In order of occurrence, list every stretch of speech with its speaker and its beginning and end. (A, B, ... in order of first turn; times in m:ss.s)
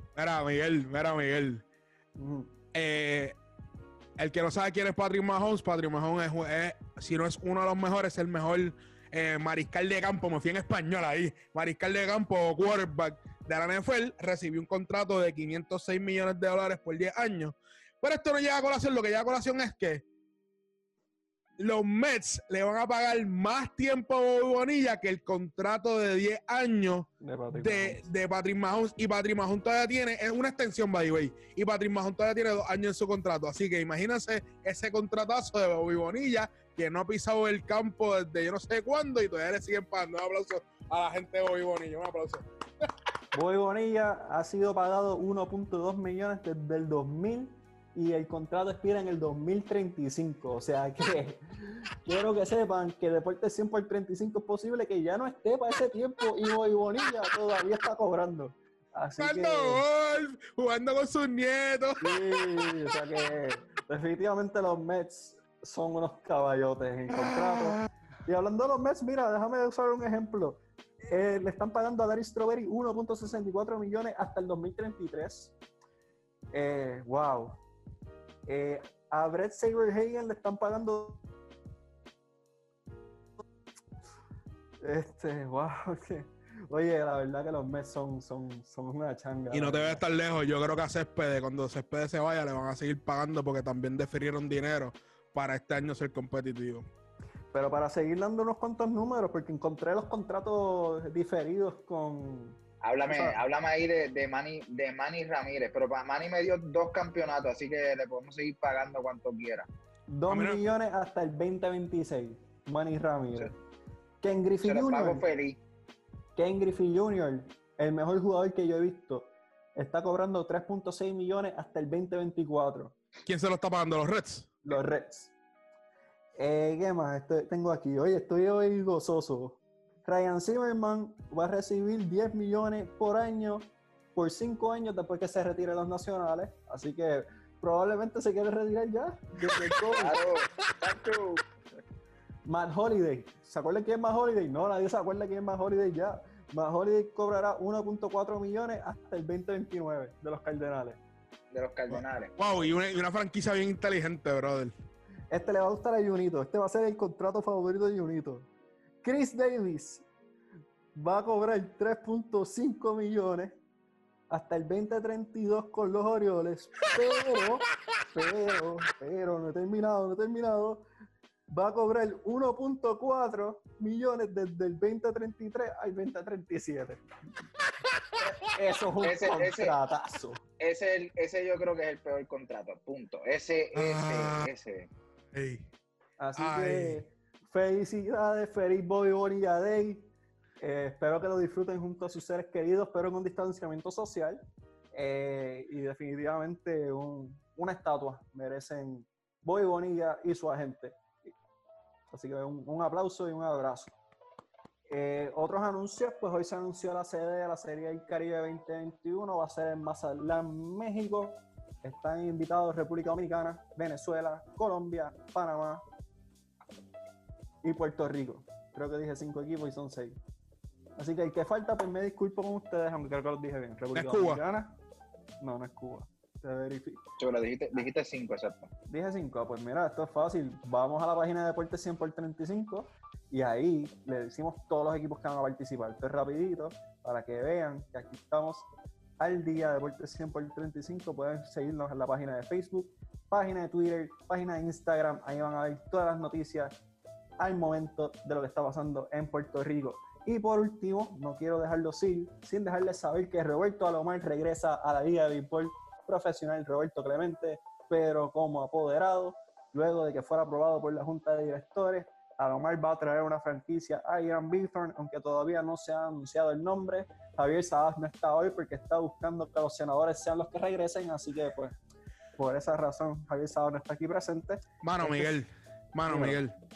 0:00.1-0:01.6 A
0:02.2-0:02.5 B
0:02.7-0:03.3 A
0:04.2-0:20.0 A
0:21.6-0:42.8 A
0:27.2-0:28.0 B
0:43.3-0:59.8 B
0:59.2-1:03.0 A
1:02.0-1:15.5 B
1:07.2-1:07.6 A
1:16.5-1:17.6 B
1:18.5-1:21.2 B
1:24.8-1:30.0 B
1:29.5-1:36.9 A
1:37.5-1:43.4 B
1:42.8-1:49.7 C
1:50.1-1:53.5 B
1:50.3-1:50.6 A
1:54.2-1:55.2 B
1:54.6-1:55.6 C
1:56.4-2:02.9 B
2:03.2-2:04.8 A
2:04.6-2:05.3 B
2:06.4-2:20.2 B
2:19.9-2:21.4 C
2:22.5-2:31.0 B
2:31.5-2:32.3 C
2:31.9-2:34.7 A
2:35.3-2:38.5 B
2:39.0-2:40.1 B
2:40.9-2:43.6 B
2:44.3-2:50.8 B
2:51.5-2:57.0 B
2:57.9-2:58.2 A
2:58.2-3:00.4 B
2:59.0-2:59.7 C
3:00.6-3:04.9 C
3:03.7-3:04.5 A
3:05.3-3:05.7 A
3:06.2-3:14.4 B
3:06.4-3:07.0 A
3:14.9-3:21.3 B
3:22.1-3:23.9 B
3:24.9-3:35.8 B
3:37.6-3:40.2 B
3:41.0-3:44.8 B
3:43.9-3:44.4 A
3:45.4-3:47.0 B
3:47.2-3:48.7 C
3:48.9-3:58.7 B
3:59.2-4:06.7 B
4:07.4-4:31.8 B
4:32.4-4:35.3 B
4:34.8-4:36.5 A
4:36.1-4:36.4 B